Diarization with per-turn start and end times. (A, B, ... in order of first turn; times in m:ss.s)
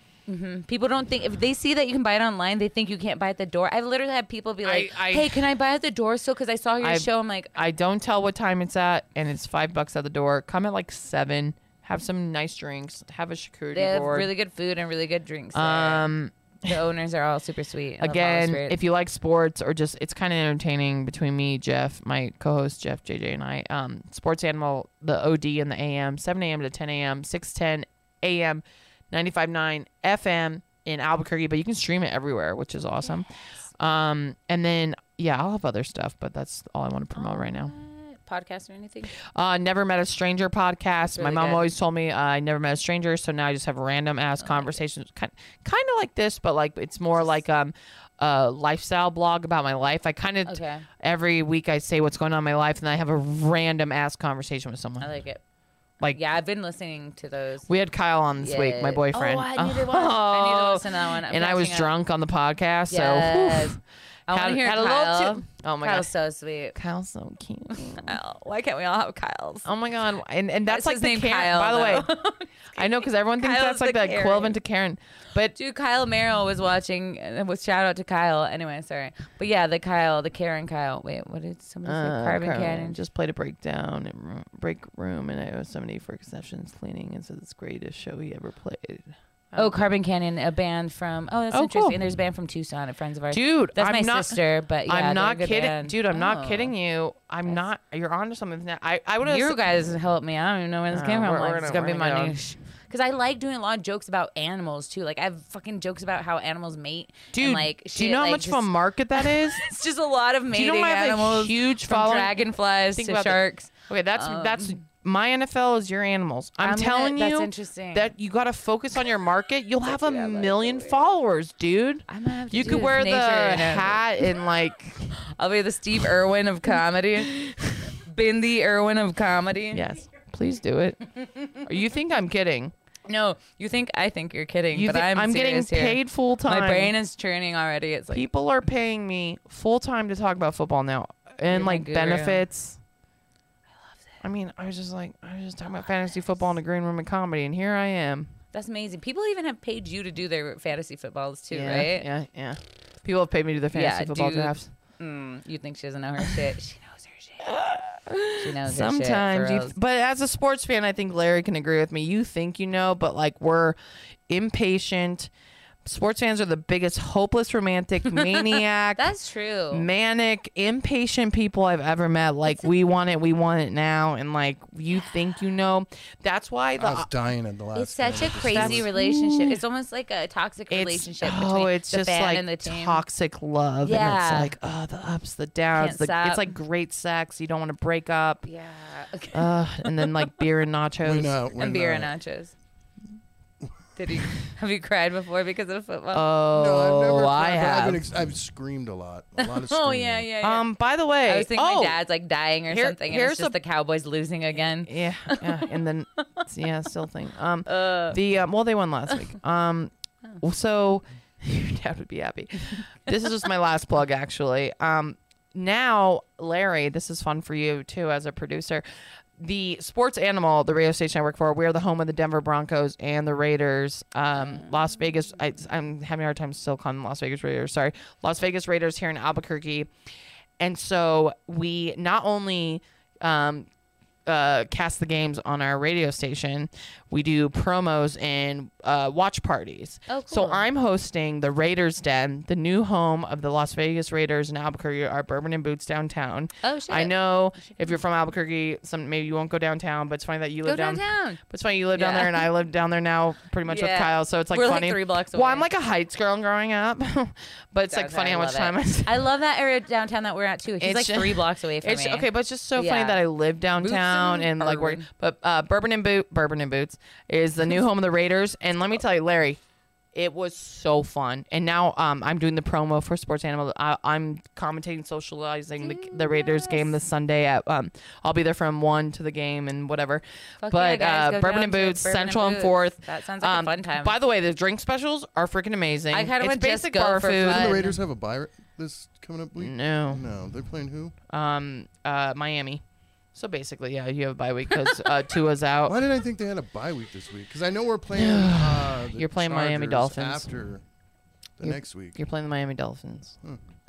0:00.3-0:07.5 A
0:04.6-0:05.4 B
0:06.8-0:14.3 B
0:13.7-0:16.1 A
0:15.5-0:16.8 B
0:16.6-0:18.8 A
0:18.0-0:37.7 B
0:37.1-0:39.1 A
0:39.2-0:55.1 B
0:41.1-0:41.7 A
0:44.4-0:44.8 A
0:50.4-0:50.8 A
0:55.0-0:55.4 A
0:56.0-0:57.7 A
0:57.7-1:06.1 B
0:58.4-1:01.9 A
1:02.9-1:06.8 A
1:06.7-1:08.2 B
1:07.7-1:09.7 A
1:09.6-1:12.1 B
1:10.7-1:14.6 A
1:12.7-1:15.5 B
1:15.5-1:23.0 A
1:21.8-1:29.9 B
1:29.5-1:36.7 A
1:31.5-1:32.0 B
1:33.3-1:39.7 B
1:39.2-1:54.8 A
1:40.9-1:42.4 B
1:47.3-1:49.7 B
1:50.5-2:05.1 B
1:56.6-1:58.1 A
1:59.8-2:01.0 A
2:02.1-2:04.3 A
2:05.1-2:09.8 A
2:09.7-2:12.7 B
2:13.1-2:18.3 A
2:14.7-2:16.9 B
2:18.1-2:22.8 B
2:21.5-2:22.4 A
2:24.2-2:28.3 B
2:28.5-2:32.1 A
2:31.5-2:34.7 B
2:33.7-2:37.5 A
2:37.4-2:43.8 B
2:38.4-2:39.8 A
2:44.3-2:45.3 B
2:45.8-2:49.1 B
2:48.1-2:49.8 A
2:49.7-2:57.1 B
2:56.8-2:58.9 C
2:57.7-3:03.0 A
2:58.2-2:59.6 B
3:00.7-3:08.5 B
3:03.8-3:04.5 A
3:05.7-3:06.5 A
3:08.4-3:09.9 A
3:09.3-3:11.4 B
3:11.0-3:12.1 C
3:11.5-3:12.5 A
3:14.0-3:16.2 A
3:16.1-3:18.0 B
3:16.5-3:20.3 C
3:19.4-3:20.7 A
3:20.4-3:22.0 B
3:21.2-3:25.8 A
3:22.7-3:23.6 B
3:24.8-3:38.8 B
3:27.7-3:28.2 A
3:39.4-3:49.9 B
3:50.6-3:53.7 B
3:54.2-4:19.2 B
4:00.1-4:00.6 A
4:06.6-4:07.1 A
4:10.6-4:11.4 A
4:11.9-4:12.5 A
4:13.6-4:15.7 A
4:17.9-4:23.2 A
4:20.8-4:29.6 B
4:23.8-4:25.1 A
4:30.1-4:47.8 B
4:35.8-4:36.9 A
4:40.6-4:44.2 A
4:46.1-4:48.0 A
4:47.4-4:51.1 C
4:49.6-4:50.2 B
4:51.3-4:52.8 B
4:53.3-4:56.0 B
4:55.8-5:00.8 C
4:58.1-5:00.5 B
5:01.6-5:02.2 C
5:01.6-5:03.4 B